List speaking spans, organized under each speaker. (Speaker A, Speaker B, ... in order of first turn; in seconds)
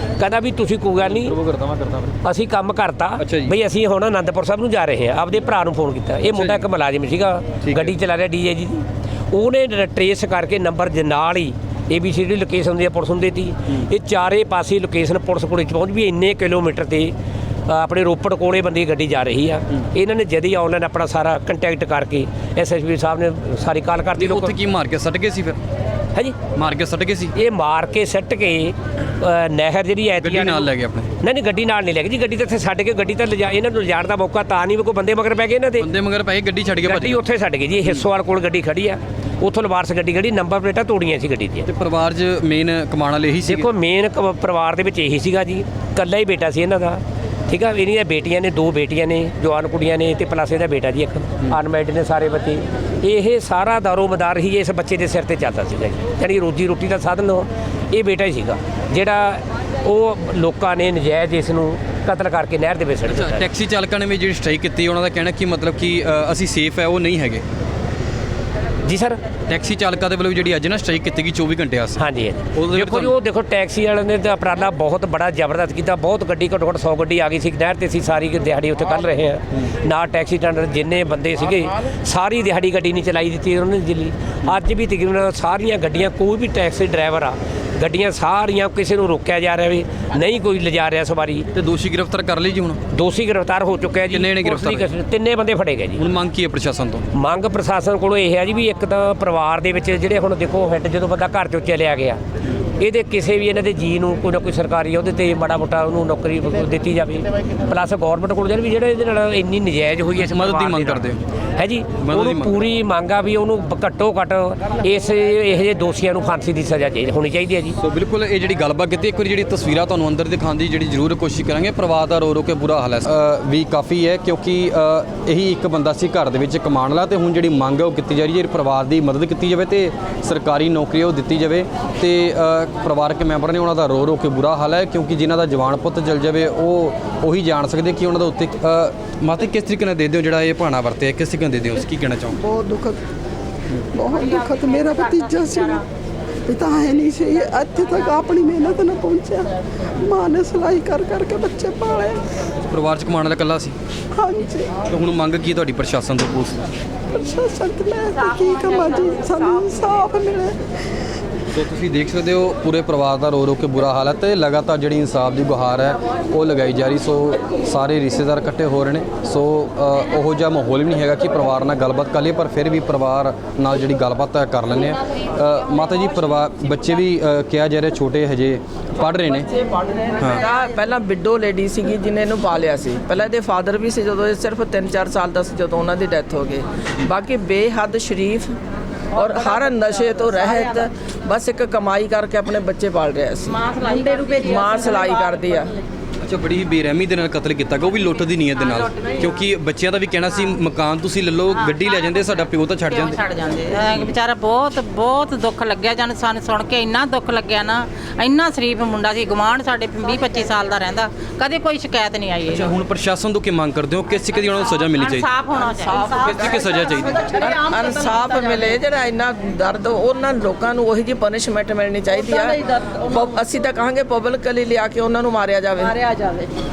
Speaker A: 0.2-1.4, 2.2-17.1, 17.7-24.5, 27.4-30.7, 31.2-35.9, 36.8-41.7, 43.4-63.5, 68.8-69.2, 72.0-91.5, 92.9-96.0, 97.1-102.2, 102.8-117.8
Speaker B: 1.0-2.2, 3.2-3.5, 6.3-6.7, 7.6-8.0, 24.2-25.6, 26.6-27.3, 30.2-31.1, 35.8-37.2, 41.7-43.7, 63.1-67.4, 69.5-72.0, 72.5-73.1, 91.5-92.8, 94.1-94.9, 96.0-97.0, 110.2-111.2, 112.0-112.7, 117.8-142.4, 152.7-153.8, 154.9-156.6, 161.5-179.5, 196.2-203.2, 203.9-204.1, 212.5-215.3, 216.2-217.3
Speaker C: 142.4-143.0, 143.9-145.8, 146.5-152.2, 154.2-154.8, 157.1-160.6
Speaker D: 179.5-188.5, 189.1-195.8, 215.9-216.6, 217.2-226.0
Speaker E: 193.7-194.3, 202.9-212.7, 215.0-216.1